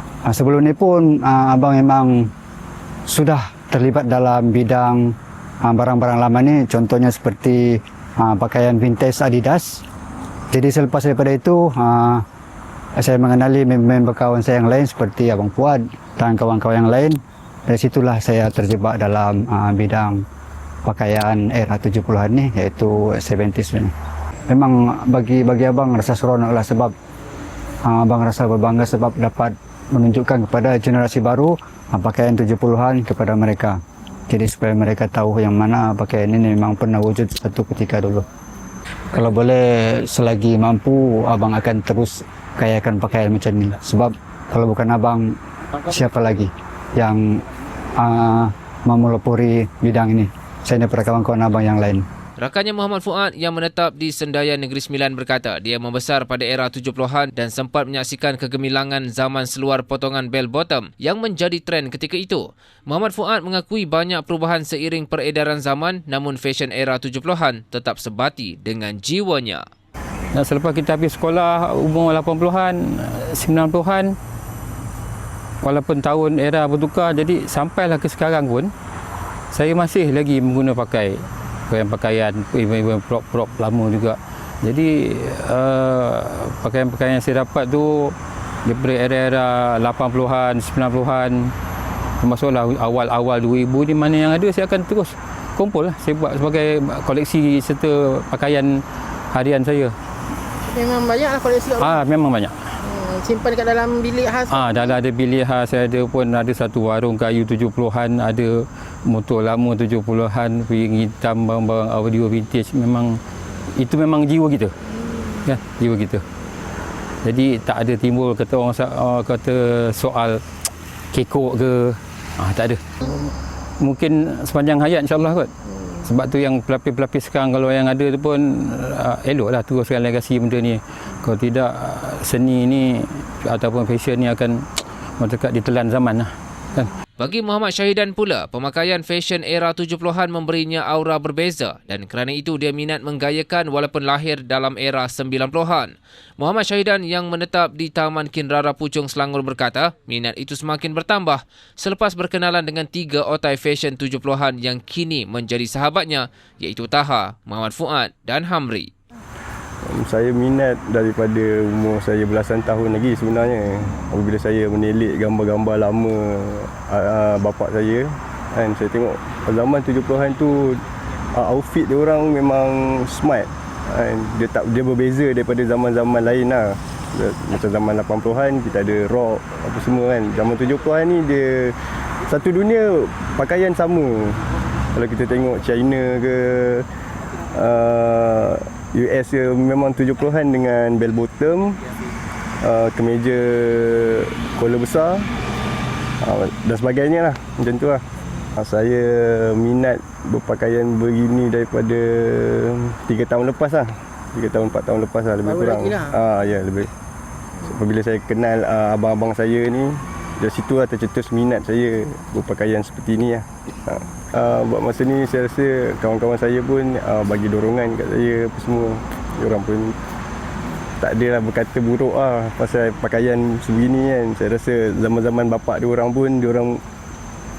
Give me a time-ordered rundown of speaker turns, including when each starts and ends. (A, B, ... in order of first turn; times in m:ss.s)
0:00.3-0:02.3 A
0:03.1-0:09.8 A
0:10.5-0:12.2 A
0:13.0-0:20.2 A
0:20.8-0:23.9 A
0:24.5-0:26.9 A
0:27.8-0:38.2 A
0:39.1-0:47.4 A
0:48.0-0:52.0 A
0:52.4-1:09.6 B
1:10.3-1:14.2 C
1:15.6-1:18.7 C
1:19.5-1:31.5 C
1:32.2-1:40.0 C
1:40.6-1:42.0 D
1:41.8-1:42.7 C
1:42.8-1:44.9 D
1:44.5-1:53.2 C
1:53.8-1:56.3 C
1:57.2-2:00.4 C
2:01.1-2:14.6 C
2:15.2-2:16.9 C
2:17.2-2:38.9 B
2:39.8-3:04.4 E
3:04.9-3:06.9 E
3:07.5-3:11.8 E
3:12.6-3:15.3 E
3:16.2-3:18.0 E
3:18.6-3:26.9 E
3:25.4-3:26.2 D
3:27.6-3:39.9 E
3:41.0-3:46.8 E